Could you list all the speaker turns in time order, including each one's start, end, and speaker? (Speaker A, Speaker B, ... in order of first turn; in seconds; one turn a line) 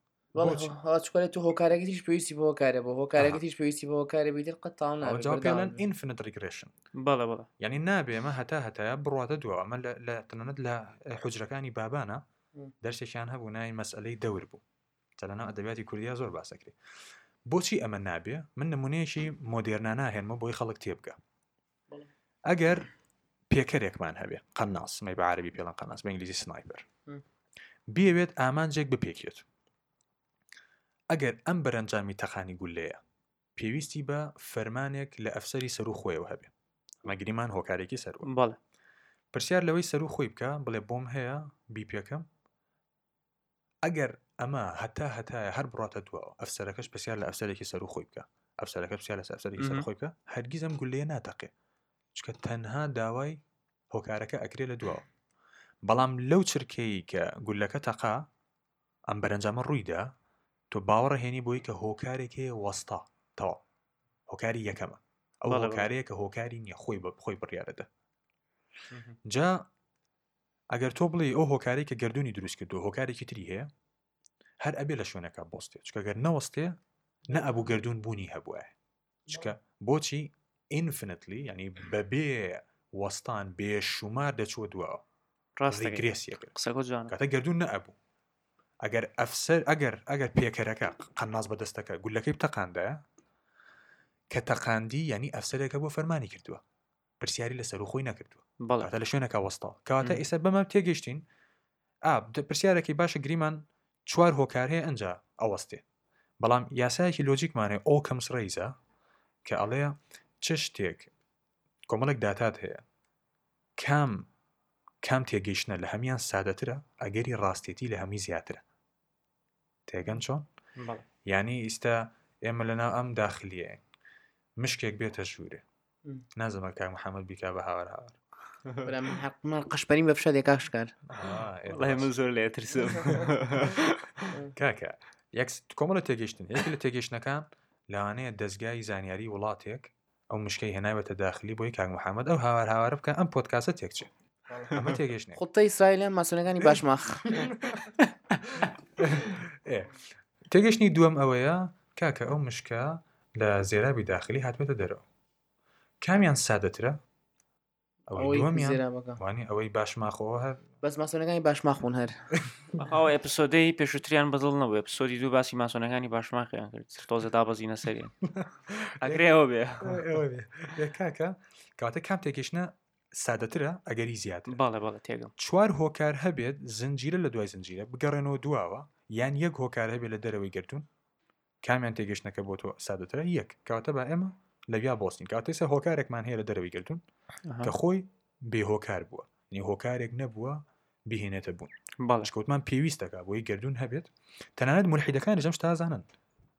Speaker A: 0.3-5.8
Speaker B: 0.3-0.7
Speaker B: 5.0-6.7
Speaker C: 6.9-7.5
Speaker B: 7.6-12.2
Speaker B: 12.8-14.6
Speaker B: 15.2-16.8
Speaker B: 17.4-21.2
Speaker B: 22.5-22.9
Speaker B: 23.5-26.8
Speaker B: 27.9-29.4
Speaker B: 31.1-33.0
Speaker B: 33.5-36.5
Speaker B: 37.0-38.3
Speaker C: 38.2-38.6
Speaker B: 39.3-42.3
Speaker B: 43.8-51.5
Speaker C: 49.6-49.9
Speaker B: 52.1-53.4
Speaker B: 53.9-55.0
Speaker B: 55.9-58.3
Speaker B: 59.1-60.1
Speaker B: 60.7-63.6
Speaker B: 64.3-67.9
Speaker C: 65.5-65.9
Speaker C: 68.9-69.2
Speaker B: 69.2-69.7
Speaker B: 70.7-73.7
Speaker B: 74.6-76.8
Speaker B: 77.3-78.7
Speaker B: 79.3-85.0
Speaker C: 85.6-87.1
Speaker B: 85.7-86.5
Speaker B: 87.1-87.9
Speaker B: 88.8-93.0
Speaker B: 94.3-96.6
Speaker B: 97.2-101.3
Speaker C: 98.6-98.9
Speaker B: 102.0-105.8
Speaker B: 106.4-108.8
Speaker B: 109.4-111.1
Speaker B: 111.9-112.8
Speaker B: 113.8-114.3
Speaker B: 115.0-118.6
Speaker B: 119.9-120.5
Speaker C: 120.8-121.0
Speaker B: 121.2-123.8
Speaker B: 124.6-125.6
Speaker B: 126.3-128.2
Speaker A: 128.8-130.9
Speaker B: 131.1-132.1
Speaker C: 131.7-134.0
Speaker B: 133.1-133.9
Speaker B: 134.4-144.1
Speaker B: 144.7-145.4
Speaker A: 145.3-147.6
Speaker B: 148.6-155.0
Speaker B: 156.0-157.0
Speaker B: 158.1-160.6
Speaker A: 158.2-159.2
Speaker A: 160.8-162.2
Speaker C: 162.8-170.1
Speaker B: 169.0-169.2
Speaker B: 169.8-174.6
Speaker C: 174.5-175.3
Speaker B: 175.4-180.8
Speaker B: 181.6-187.0
Speaker C: 187.5-187.7
Speaker B: 187.6-196.1
Speaker C: 192.0-192.3